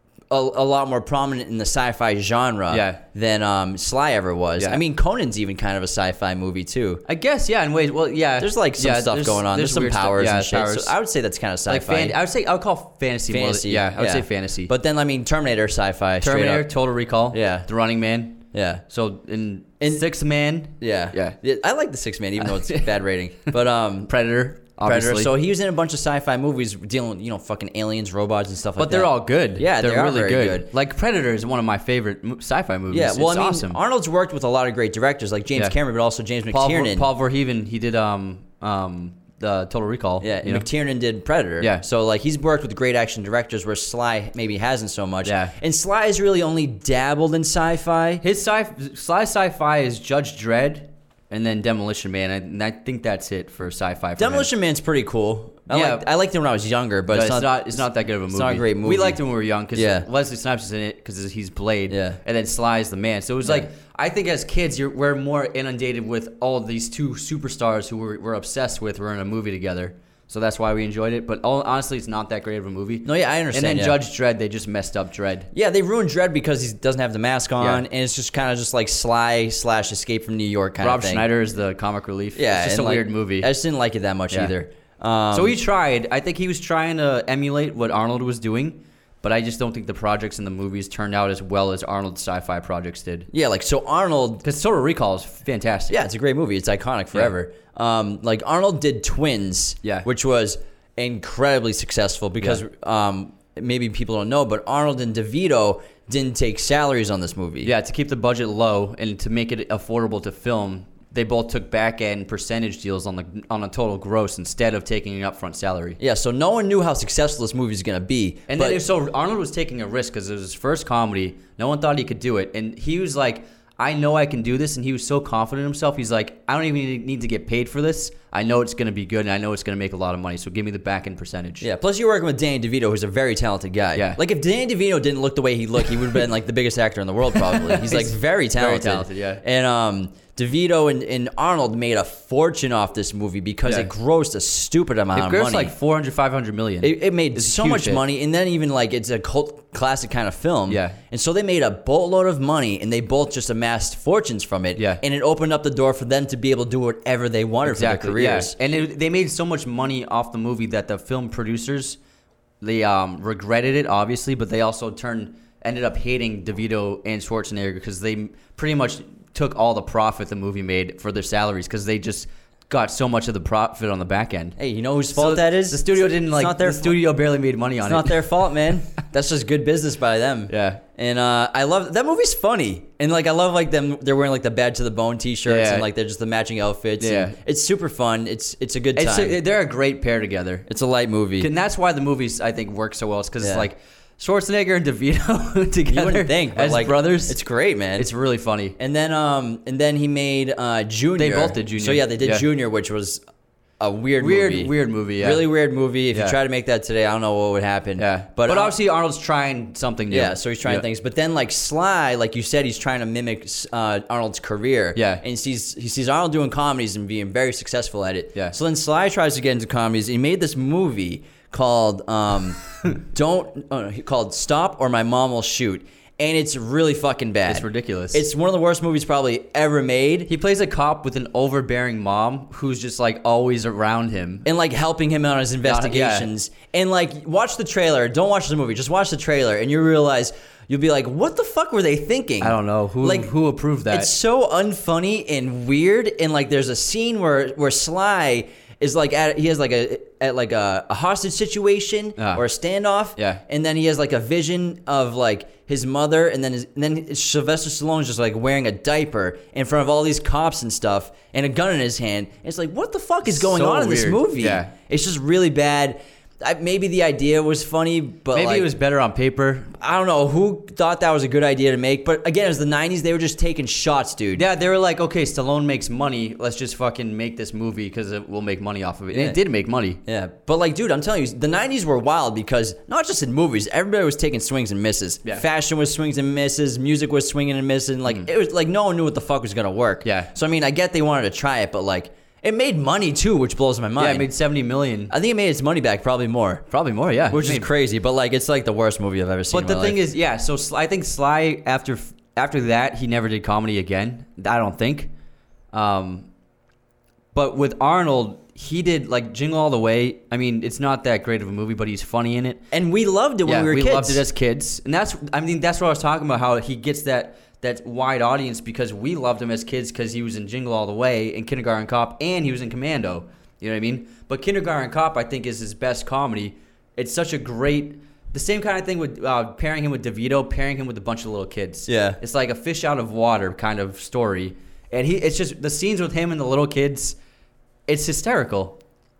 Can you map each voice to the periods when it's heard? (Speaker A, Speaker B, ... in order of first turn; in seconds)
Speaker A: 0.3-7.0, 8.4-12.2, 13.3-16.7, 17.3-17.7, 18.5-18.8, 20.8-24.1, 24.8-30.7, 32.9-37.1, 40.2-48.2, 54.2-59.2, 59.7-60.1, 61.9-62.2, 73.0-74.0, 75.5-81.3, 82.3-85.6, 93.3-94.4, 95.9-107.7, 116.0-118.8, 131.6-145.7, 146.8-158.5, 174.6-177.0, 177.8-189.4, 190.7-191.5, 193.4-193.7, 195.9-198.1, 198.8-203.2, 203.8-208.7, 210.1-230.3, 234.4-243.3, 243.9-268.7, 269.8-274.4, 279.1-279.4, 280.1-294.3, 295.1-296.6, 297.3-300.0, 312.7-314.2, 331.9-332.2
Speaker B: 2.7-3.0, 7.0-10.9, 11.7-14.7, 16.2-21.4, 22.4-22.9, 24.1-25.3, 28.8-33.8, 36.5-40.7, 45.2-45.5, 48.2-54.5, 55.7-56.0, 57.1-75.5, 77.6-77.8, 80.8-83.5, 85.3-93.3, 94.4-96.0, 107.6-116.0, 118.5-131.7, 133.9-134.2, 137.5-139.4, 145.1-148.0, 150.7-151.0, 154.8-155.0, 157.6-162.0, 162.6-174.6, 175.1-178.7, 180.5-180.8, 185.4-185.9, 187.0-187.3, 188.9-190.7, 191.4-197.4, 197.9-198.8, 201.2-202.4, 204.2-205.5, 206.1-206.4, 208.0-210.9, 214.9-215.2, 227.5-228.2, 230.3-234.4, 235.6-236.3, 242.4-244.1, 252.2-252.4, 253.2-253.4, 263.2-264.7, 268.3-269.7, 274.3-280.0, 290.0-290.3, 294.0-295.1, 296.7-297.7, 299.5-305.1, 305.7-306.3, 307.3-312.7, 313.4-337.2, 337.9-338.8